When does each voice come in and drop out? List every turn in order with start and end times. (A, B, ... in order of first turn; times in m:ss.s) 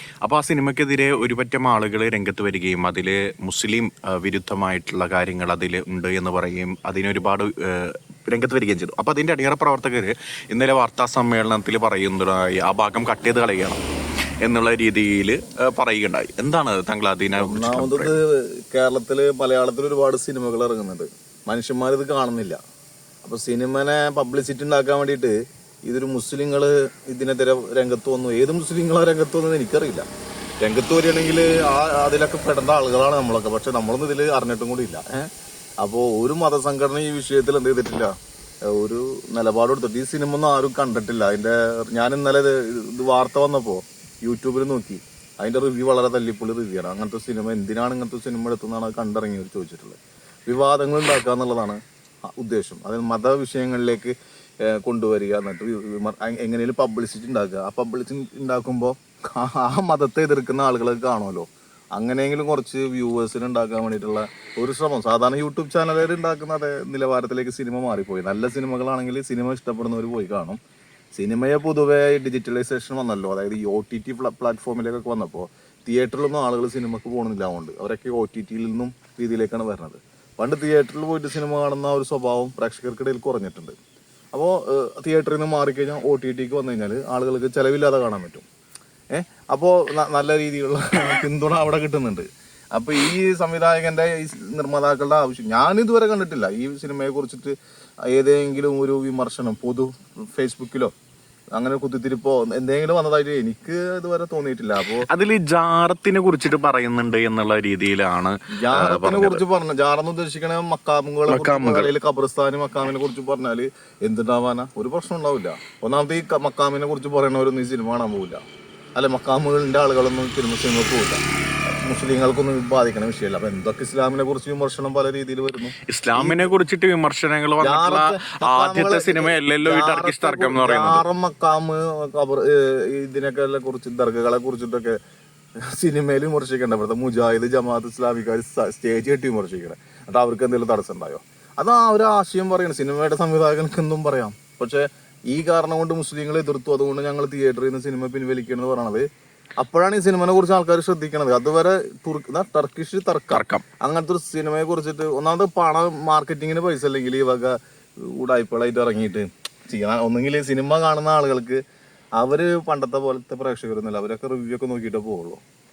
0:00.2-0:13.8 A
0:14.4-0:18.1 A
0:17.4-0:22.6 B
0:23.2-0:25.4 B
0:25.9-0:30.1 B
0:30.6-0:35.3 B
0:35.8-0:38.1 B
0:38.7-1:10.6 B
1:11.1-1:23.7 B
1:24.3-1:28.5 B
1:29.1-1:37.5 B
1:38.1-1:40.9 B
1:41.6-1:45.1 B
1:45.1-1:49.4 A
1:48.6-1:58.4 B
1:51.3-1:51.9 A
1:59.0-2:06.5 B
2:05.9-2:11.0 A
2:07.6-2:15.0 B
2:15.7-2:29.0 B
2:29.6-2:41.6 B
2:33.3-2:33.6 A
2:42.2-2:45.4 B